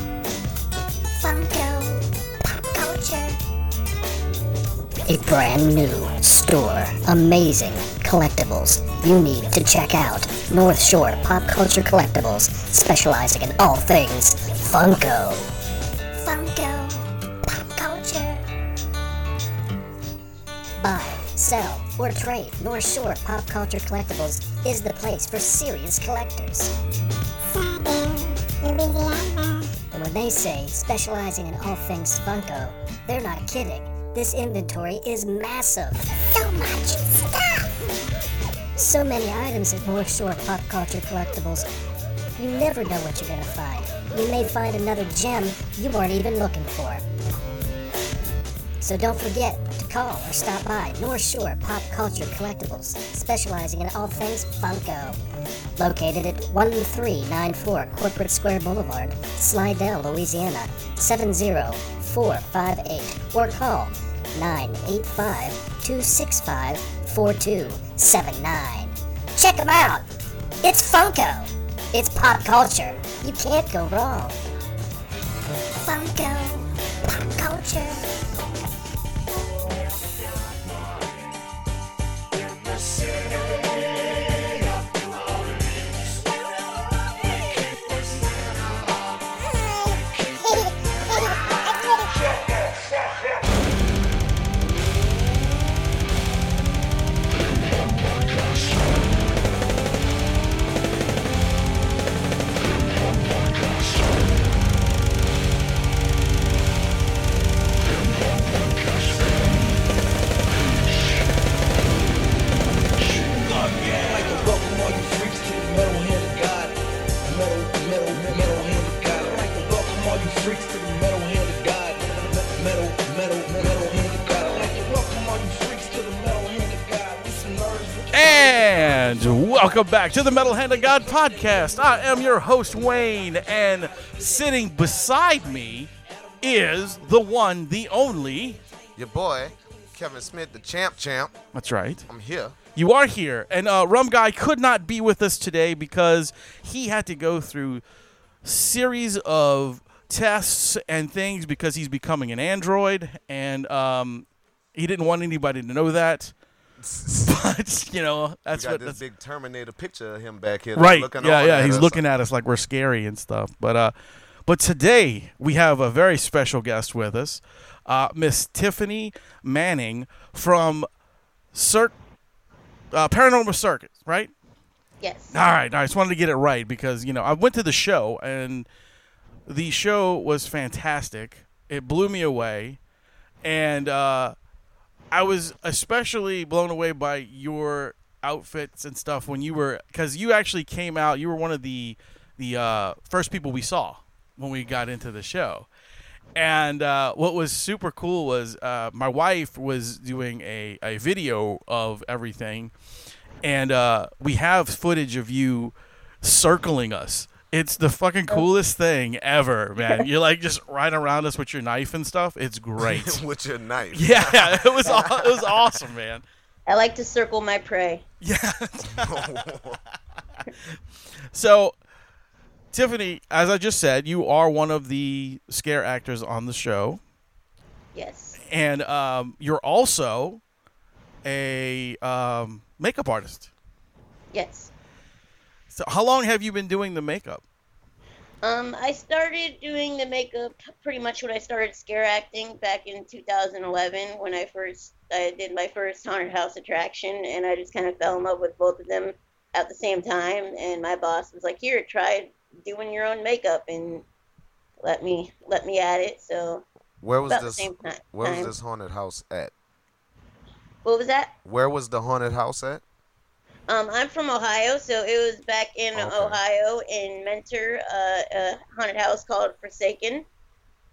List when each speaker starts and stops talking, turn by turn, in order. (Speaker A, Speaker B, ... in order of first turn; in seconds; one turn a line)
Speaker A: 1.2-3.4
Speaker A: 5.1-15.5
Speaker A: 16.2-18.4
Speaker A: 20.8-26.7
Speaker A: 27.5-37.7
Speaker A: 38.8-41.6
Speaker A: 42.4-47.0
Speaker A: 48.8-55.2
Speaker A: 55.8-70.0
Speaker A: 70.6-74.4
Speaker A: 75.8-78.1
Speaker B: 108.7-109.1
Speaker B: 113.0-128.6
Speaker C: 128.1-135.9
Speaker C: 136.4-138.6
Speaker D: 139.0-141.3
Speaker C: 141.5-142.1
Speaker D: 142.1-142.6
Speaker C: 142.8-147.8
Speaker C: 148.4-156.3
Speaker D: 156.8-157.4
Speaker C: 157.3-159.0
Speaker D: 158.5-162.0
Speaker C: 160.8-163.9
Speaker C: 164.5-170.9
Speaker C: 171.5-171.9
Speaker C: 172.9-174.3
Speaker E: 175.0-175.4
Speaker C: 175.3-178.7
Speaker C: 179.5-182.8
Speaker C: 183.4-184.3
Speaker C: 185.1-195.7
Speaker C: 196.4-202.7
Speaker C: 203.4-213.2
Speaker D: 212.8-215.8
Speaker C: 213.9-216.2
Speaker E: 216.7-218.0
Speaker C: 218.2-219.3
Speaker D: 218.8-219.8
Speaker C: 221.3-221.8
Speaker C: 222.7-227.0
Speaker E: 227.9-228.4
Speaker C: 228.5-230.4
Speaker C: 231.2-233.5
Speaker E: 234.3-234.7
Speaker C: 235.7-237.4
Speaker E: 238.4-254.1
Speaker E: 254.8-256.6
Speaker D: 257.0-259.5
Speaker E: 257.3-258.5
Speaker E: 260.9-261.3
Speaker D: 261.4-262.8
Speaker E: 263.7-270.2
Speaker D: 265.9-266.4